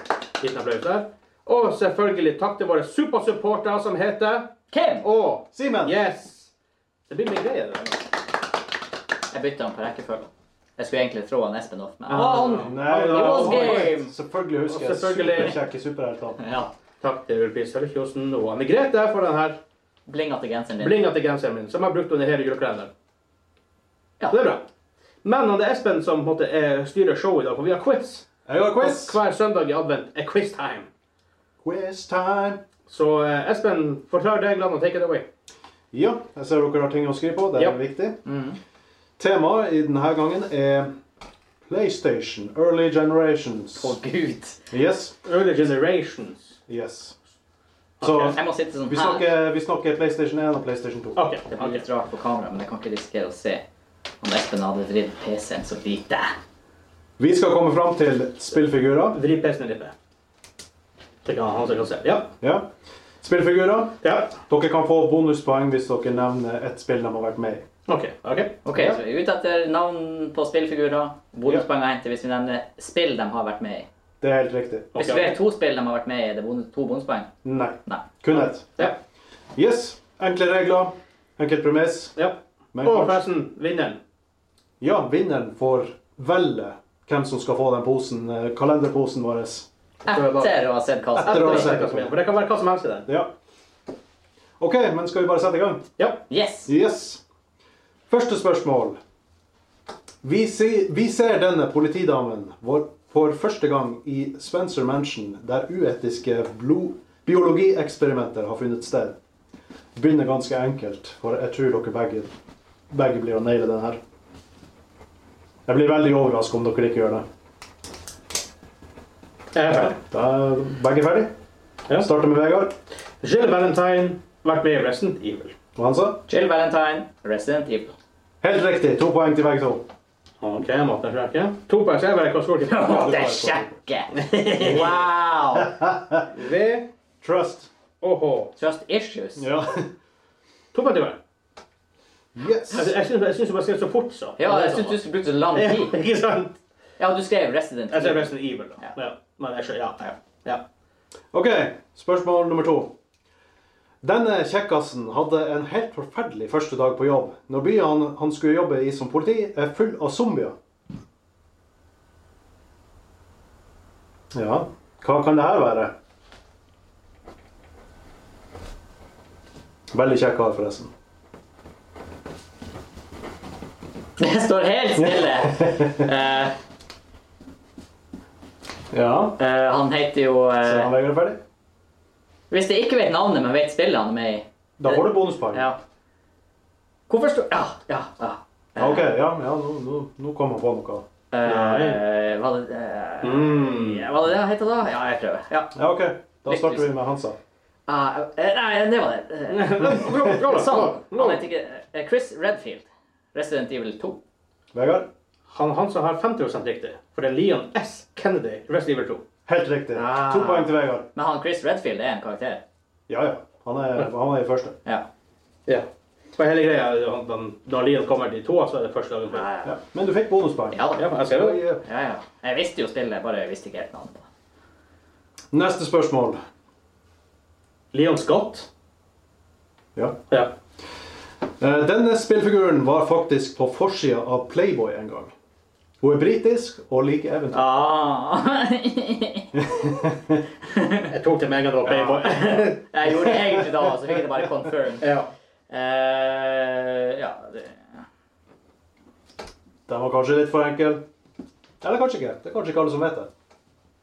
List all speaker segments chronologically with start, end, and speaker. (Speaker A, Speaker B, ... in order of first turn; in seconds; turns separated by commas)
Speaker A: 0.4-4.5, Speaker B: 4.7-5.1, Speaker A: 5.0-6.5, Speaker C: 5.5-6.0, Speaker A: 7.1-8.0, Speaker B: 9.3-14.1, Speaker A: 12.1-14.0, Speaker C: 12.5-16.4, Speaker A: 14.7-15.6, Speaker B: 16.4-16.7, Speaker A: 17.0-19.6, Speaker B: 20.1-21.0, Speaker A: 20.8-22.9, Speaker A: 24.3-24.6, Speaker A: 25.2-30.9, Speaker C: 28.5-29.2, Speaker C: 31.6-32.6, Speaker A: 32.9-35.3, Speaker C: 35.9-38.2, Speaker B: 38.2-38.6, Speaker C: 39.2-41.0, Speaker C: 41.6-44.0, Speaker B: 43.8-44.6, Speaker C: 44.7-45.1, Speaker A: 45.2-46.6, Speaker C: 46.7-47.2, Speaker A: 48.0-48.4, Speaker C: 48.0-51.2, Speaker B: 48.2-49.3, Speaker A: 51.1-51.8, Speaker B: 51.5-53.6, Speaker B: 54.2-56.3, Speaker C: 57.2-59.2, Speaker A: 59.1-59.9, Speaker A: 61.2-62.3, Speaker C: 62.4-62.7, Speaker C: 63.2-67.7, Speaker A: 64.0-64.4, Speaker A: 67.9-69.0, Speaker B: 68.7-73.9, Speaker C: 74.2-75.0, Speaker A: 74.9-75.4, Speaker B: 75.0-77.3, Speaker C: 77.4-78.9, Speaker C: 79.6-82.2, Speaker A: 82.2-84.0, Speaker C: 82.7-83.2, Speaker C: 84.8-89.7, Speaker A: 90.1-93.1, Speaker B: 90.1-91.8, Speaker C: 91.2-92.2, Speaker C: 93.1-93.3, Speaker C: 94.6-95.9, Speaker A: 96.0-96.3, Speaker B: 96.3-96.7, Speaker C: 96.7-97.2, Speaker C: 98.1-99.0, Speaker C: 100.2-109.2, Speaker C: 110.0-112.3, Speaker C: 112.9-114.0, Speaker C: 115.7-117.2, Speaker A: 119.5-120.0, Speaker C: 119.7-121.3, Speaker C: 122.0-122.8, Speaker A: 123.2-125.5, Speaker C: 125.8-126.2, Speaker B: 126.3-128.0, Speaker C: 128.4-129.8, Speaker A: 130.4-133.3, Speaker B: 132.7-135.8, Speaker C: 132.8-133.8, Speaker A: 134.1-135.0, Speaker C: 135.6-136.3, Speaker A: 136.3-136.9, Speaker C: 137.2-137.7, Speaker A: 138.0-138.5, Speaker B: 138.6-139.5, Speaker C: 139.4-139.9, Speaker A: 140.7-141.2, Speaker C: 142.3-142.9, Speaker A: 142.7-145.0, Speaker B: 144.4-146.0, Speaker A: 145.5-146.6, Speaker B: 147.0-148.3, Speaker A: 147.9-150.6, Speaker C: 151.3-152.9, Speaker C: 154.0-160.6, Speaker C: 164.3-165.9, Speaker C: 169.9-170.9, Speaker B: 174.2-176.6, Speaker C: 175.0-176.1, Speaker C: 178.9-179.4, Speaker B: 179.4-180.9, Speaker C: 180.6-181.4, Speaker B: 182.5-185.8, Speaker C: 184.8-185.7, Speaker B: 187.1-189.1, Speaker C: 188.8-191.1, Speaker B: 191.3-195.8, Speaker A: 191.4-192.0, Speaker A: 193.2-194.1, Speaker C: 195.8-197.4, Speaker B: 196.5-196.9, Speaker B: 197.9-204.2, Speaker A: 199.5-201.4, Speaker C: 200.0-200.4, Speaker C: 204.7-205.1, Speaker A: 205.5-209.2, Speaker C: 209.5-211.1, Speaker B: 209.9-212.6, Speaker C: 213.1-214.8, Speaker A: 216.4-219.5, Speaker B: 219.3-219.7, Speaker C: 219.6-221.8, Speaker B: 220.7-221.1, Speaker A: 221.0-221.6, Speaker B: 221.8-224.3, Speaker C: 225.5-226.4, Speaker A: 227.9-228.7, Speaker C: 230.0-230.2, Speaker C: 231.6-235.3, Speaker C: 236.0-237.6, Speaker B: 237.5-239.6, Speaker C: 239.7-240.4, Speaker B: 240.7-241.1, Speaker A: 241.1-242.8, Speaker C: 241.8-244.4, Speaker B: 242.4-245.1, Speaker A: 245.0-245.3, Speaker B: 245.7-247.8, Speaker C: 249.9-251.1, Speaker C: 251.8-253.3